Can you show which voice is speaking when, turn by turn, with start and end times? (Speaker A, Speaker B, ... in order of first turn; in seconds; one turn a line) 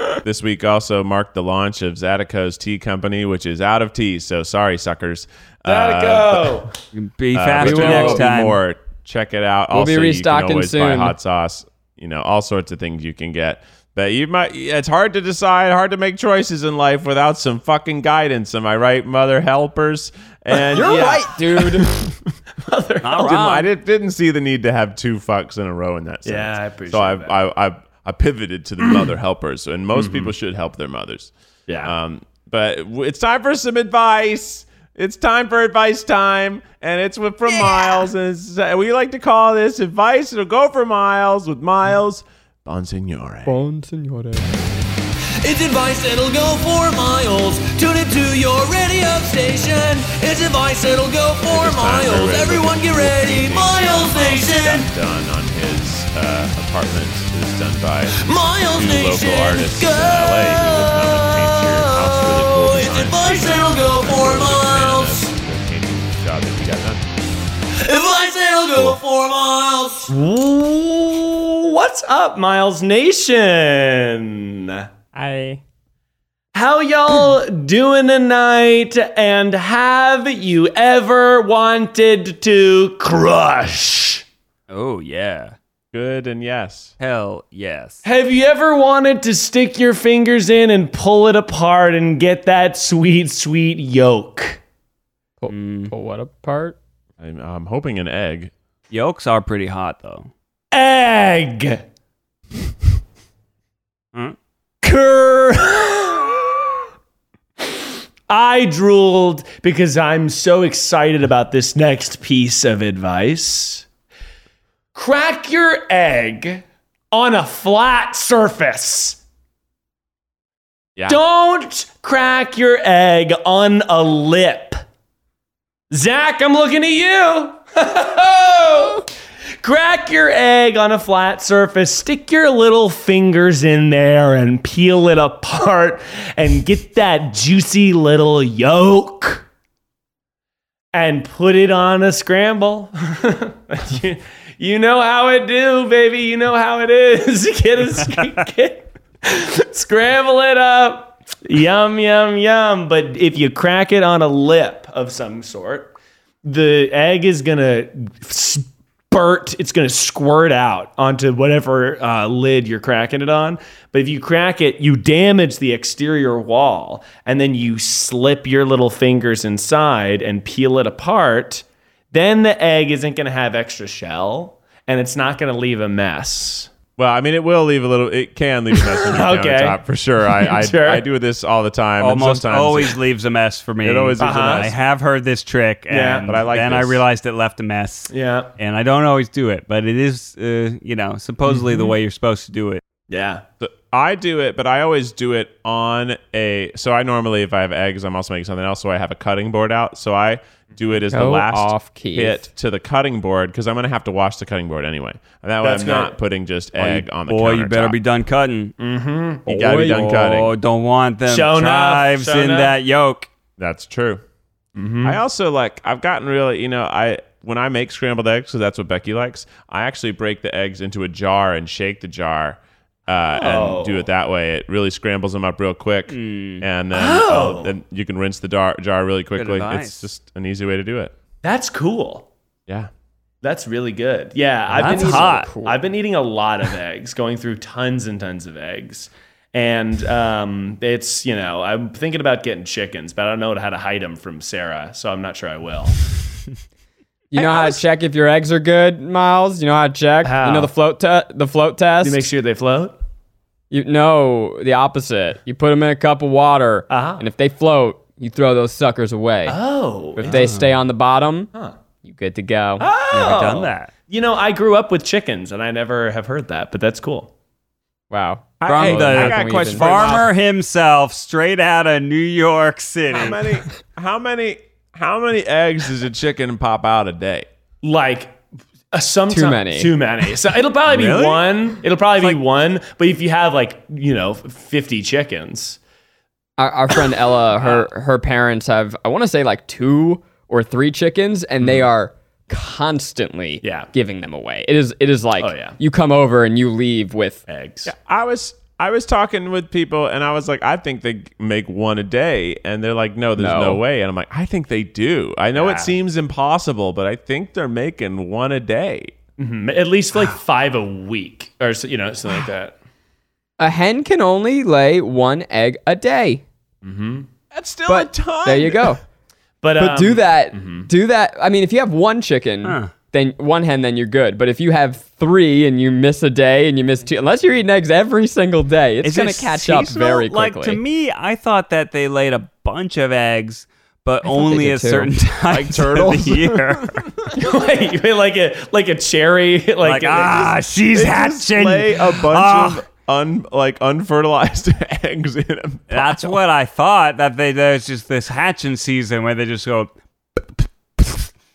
Speaker A: 0.2-6.7
Speaker B: 5.7-6.7
Speaker C: 6.9-8.6
Speaker A: 7.3-22.3
Speaker D: 7.6-8.2
Speaker D: 9.7-11.2
Speaker D: 20.7-21.9
Speaker B: 21.6-21.9
Speaker B: 22.6-23.4
Speaker C: 23.0-23.7
Speaker A: 23.2-31.3
Speaker B: 26.2-27.3
Speaker B: 29.9-30.3
Speaker B: 31.7-31.9
Speaker A: 31.8-43.6
Speaker E: 37.6-37.9
Speaker D: 43.5-44.6
Speaker E: 45.4-54.9
Speaker A: 51.4-67.0
Speaker E: 58.1-65.3
Speaker E: 67.8-70.1
Speaker B: 70.1-74.9
Speaker D: 75.1-75.6
Speaker B: 76.5-84.2
Speaker C: 84.7-85.5
Speaker A: 85.9-86.9
Speaker C: 87.0-88.0
Speaker B: 88.0-94.6
Speaker D: 95.4-96.8
Speaker C: 95.5-95.9
Speaker A: 97.2-98.5
Speaker C: 98.9-100.3
Speaker B: 100.7-101.8
Speaker B: 104.8-106.7
Speaker B: 107.6-113.8
Speaker B: 114.9-119.2
Speaker B: 121.0-124.8
Speaker B: 125.9-129.1
Speaker B: 129.6-139.4
Speaker B: 140.9-176.7
Speaker A: 177.0-183.0
Speaker B: 178.8-181.0
Speaker C: 182.0-192.8
Speaker A: 183.8-184.7
Speaker B: 184.2-184.7
Speaker B: 185.9-186.4
Speaker A: 186.2-187.0
Speaker B: 188.1-188.5
Speaker B: 191.4-191.9
Speaker B: 193.1-193.4
Speaker A: 193.6-208.0
Speaker D: 201.1-202.5
Speaker B: 205.6-206.1
Speaker C: 206.8-208.7
Speaker B: 208.8-209.5
Speaker A: 209.4-210.5
Speaker D: 209.5-210.2
Speaker C: 209.7-213.3
Speaker B: 211.2-212.7
Speaker A: 213.6-214.2
Speaker B: 214.7-215.2
Speaker A: 215.0-231.1
Speaker B: 223.3-224.1
Speaker C: 226.1-226.7
Speaker B: 226.9-227.7
Speaker C: 229.3-230.1
Speaker B: 231.4-232.3
Speaker B: 233.4-246.0
Speaker D: 234.7-235.8
Speaker C: 234.7-235.5
Speaker D: 247.3-252.3
Speaker A: 247.3-247.8
Speaker B: 250.2-250.7
Speaker B: 252.0-253.0
Speaker D: 253.7-259.6
Speaker B: 256.9-257.2
Speaker B: 259.4-260.4
Speaker D: 260.1-261.5
Speaker C: 260.2-260.7
Speaker D: 262.0-262.9
Speaker B: 262.8-267.3
Speaker C: 263.1-263.9
Speaker D: 268.1-270.2
Speaker A: 268.6-270.3
Speaker C: 268.6-273.4
Speaker A: 273.1-277.5
Speaker B: 277.8-278.4
Speaker B: 278.9-285.8
Speaker D: 279.3-279.9
Speaker C: 280.9-281.5
Speaker D: 286.6-297.4
Speaker B: 293.6-293.9
Speaker B: 295.4-295.8
Speaker B: 297.5-297.9
Speaker A: 297.8-309.1
Speaker D: 303.4-303.8
Speaker B: 305.5-305.9
Speaker B: 309.4-312.8
Speaker D: 313.6-316.4
Speaker B: 316.8-317.3
Speaker A: 317.5-319.0
Speaker D: 317.9-319.0
Speaker B: 319.6-320.9
Speaker D: 319.8-330.8
Speaker C: 322.6-322.9
Speaker C: 329.0-337.1
Speaker D: 334.2-335.1
Speaker A: 335.5-337.3
Speaker B: 337.3-340.6
Speaker C: 339.8-342.8
Speaker A: 340.9-346.4
Speaker C: 345.9-349.9